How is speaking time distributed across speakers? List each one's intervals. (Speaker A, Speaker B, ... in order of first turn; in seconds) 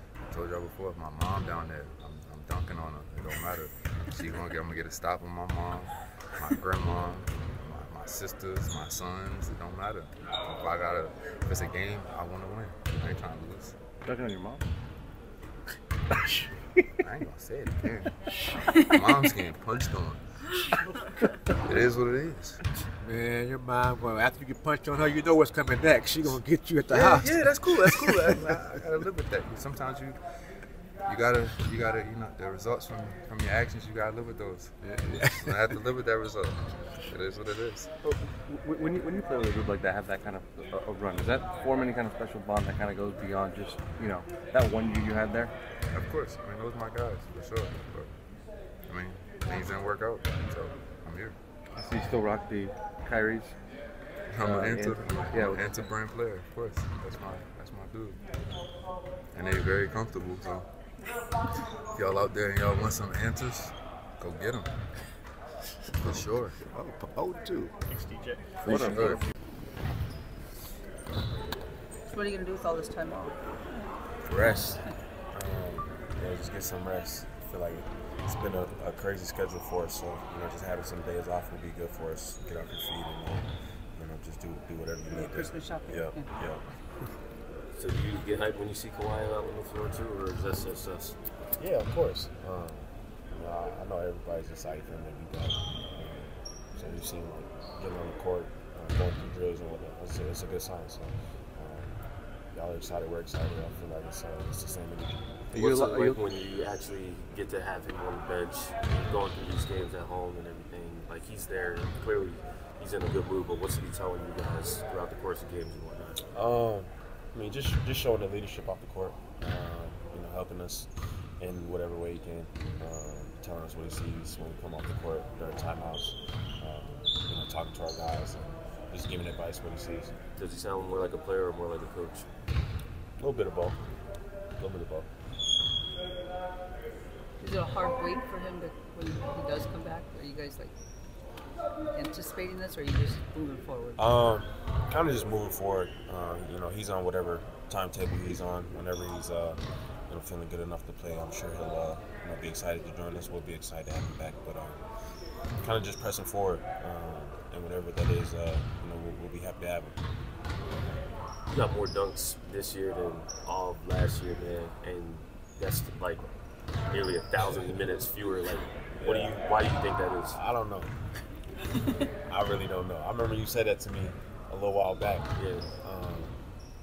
Speaker A: 0.3-13.7, 17.0-18.1, 18.8-20.2, 21.6-22.6, 26.9-30.2, 31.1-34.7, 35.3-37.9, 45.9-48.1, 48.9-51.4, 54.3-58.2, 59.3-60.7, 61.9-64.7, 66.0-66.6, 68.6-69.2
Speaker B: 14.0-14.6, 38.0-45.5, 51.7-53.5, 54.4-55.8, 105.5-106.2
Speaker C: 23.0-28.2, 34.9-35.5, 66.8-67.7
Speaker D: 72.1-73.9, 74.5-74.9, 85.1-86.4, 137.4-140.7, 141.9-144.1
Speaker E: 74.4-74.8, 75.3-86.7, 91.6-105.3, 116.3-130.1, 133.2-133.8, 134.6-135.1, 144.0-154.8, 155.6-160.0, 168.9-169.5, 170.3-170.9, 172.3-175.3, 175.8-176.4
Speaker F: 87.7-91.2, 105.5-116.2, 130.3-132.3, 161.5-166.3, 166.9-170.4, 175.3-175.7